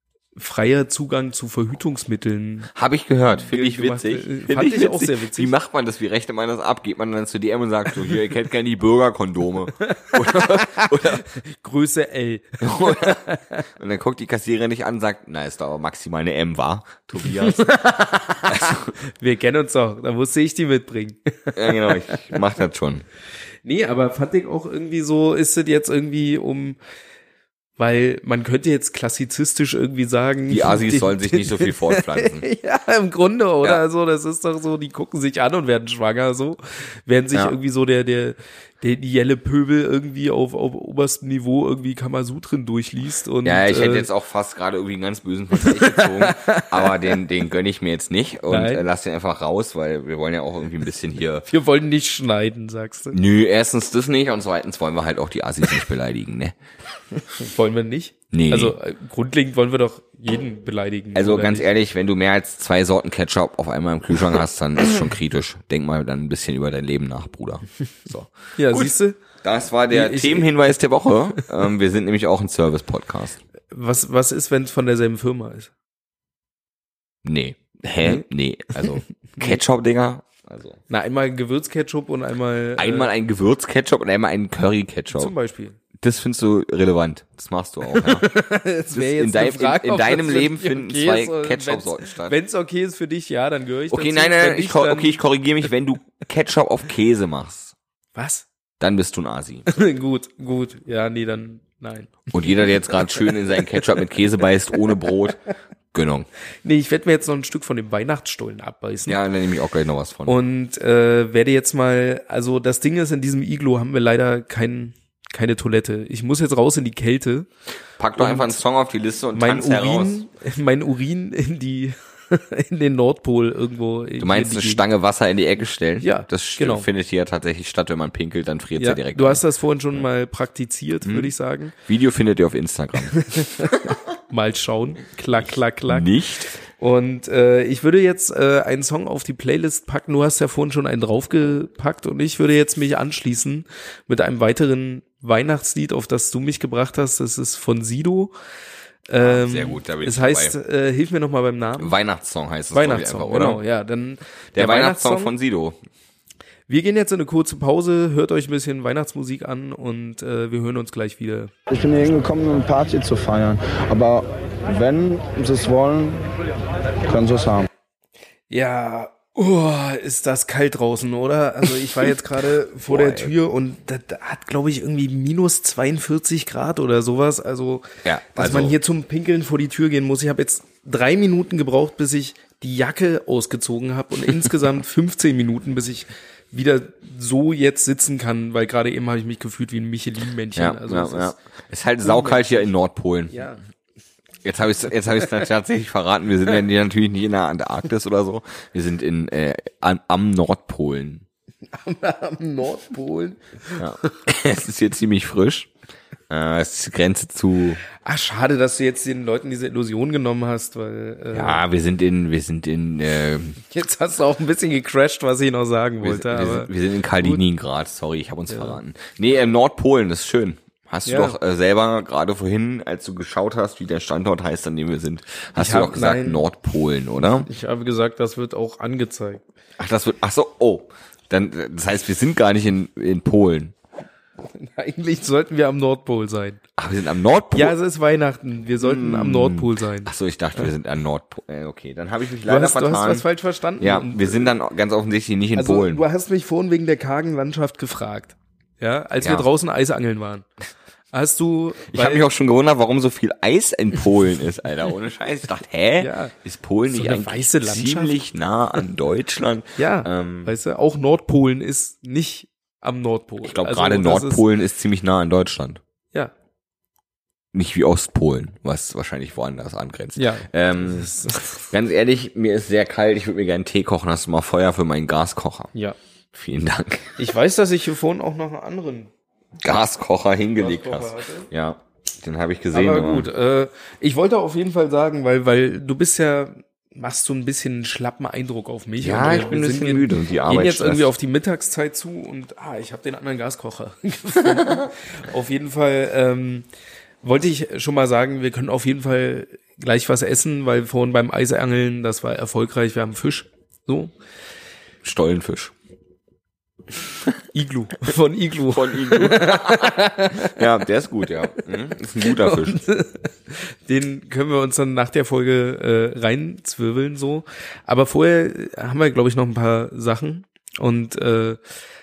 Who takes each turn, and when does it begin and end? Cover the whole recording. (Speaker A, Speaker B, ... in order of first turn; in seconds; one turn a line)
Speaker A: 0.3-2.7
Speaker B: 2.7-11.2
Speaker A: 3.4-5.5
Speaker A: 9.8-13.7
Speaker B: 12.6-13.2
Speaker B: 13.8-17.6
Speaker A: 17.4-22.2
Speaker B: 18.5-18.9
Speaker B: 21.6-23.1
Speaker A: 23.6-26.8
Speaker A: 27.8-44.1
Speaker B: 30.5-32.5
Speaker B: 43.4-51.5
Speaker A: 45.6-47.0
Speaker A: 48.5-48.8
Speaker A: 51.5-53.2
Speaker B: 53.1-56.5
Speaker A: 57.2-61.7
Speaker B: 58.3-58.8
Speaker B: 61.1-73.4
Speaker A: 68.6-69.2
Speaker A: 69.9-70.5
Speaker A: 73.7-75.7
Speaker B: 77.2-80.8
Speaker A: 80.9-83.1
Speaker B: 82.8-85.3
Speaker A: 85.2-85.8
Speaker B: 86.0-88.3
Speaker A: 87.9-95.2
Speaker B: 88.9-92.4
Speaker B: 93.9-97.8
Speaker A: 98.2-98.5
Speaker B: 98.8-99.7
Speaker A: 99.7-103.8
Speaker B: 102.3-105.4
Speaker B: 105.9-106.3
Speaker A: 106.6-109.2
Speaker B: 109.1-110.4
Speaker A: 110.3-117.5
Speaker B: 118.0-120.2
Speaker A: 118.2-118.6
Speaker A: 119.3-124.8
Speaker B: 124.2-129.4
Speaker A: 126.0-126.9
Speaker A: 128.8-131.7
Speaker B: 131.0-133.3
Speaker A: 133.2-136.1
Speaker B: 135.9-136.5
Speaker A: 136.8-148.3
Speaker A: 149.1-151.9
Speaker B: 149.2-150.6
Speaker B: 151.8-153.6
Speaker A: 152.7-155.3
Speaker B: 154.5-155.8
Speaker A: 156.7-161.5
Speaker C: 161.7-166.3
Speaker C: 167.1-167.7
Speaker A: 168.5-191.3
Speaker B: 172.9-173.3
Speaker B: 178.1-178.8
Speaker B: 190.6-193.4
Speaker A: 192.0-192.7
Speaker A: 193.3-193.6
Speaker B: 194.4-201.2
Speaker A: 201.7-204.1
Speaker B: 203.8-205.7
Speaker B: 206.3-207.8
Speaker A: 208.0-211.6
Speaker B: 211.3-213.6
Speaker A: 213.6-217.4
Speaker B: 216.0-227.5
Speaker A: 218.5-218.8
Speaker A: 221.1-221.4
Speaker A: 225.6-226.4
Speaker A: 227.4-229.4
Speaker B: 229.8-233.8
Speaker A: 234.5-236.6
Speaker B: 236.8-237.8
Speaker A: 237.5-240.1
Speaker B: 238.8-243.3
Speaker A: 242.4-244.5
Speaker B: 243.8-246.0
Speaker A: 245.6-250.4
Speaker B: 249.2-249.5
Speaker A: 251.1-252.3
Speaker B: 251.9-260.5
Speaker A: 256.0-256.3
Speaker A: 256.9-258.2
Speaker A: 259.8-264.4
Speaker B: 263.4-265.8
Speaker B: 267.5-275.7
Speaker A: 270.2-271.6
Speaker B: 276.3-277.2
Speaker A: 277.2-279.1
Speaker B: 279.6-283.3
Speaker A: 280.6-281.5
Speaker A: 282.7-296.7
Speaker B: 289.0-291.1
Speaker A: 297.2-304.1
Speaker B: 305.0-305.7
Speaker A: 307.5-310.6
Speaker B: 308.7-312.8
Speaker A: 312.2-321.6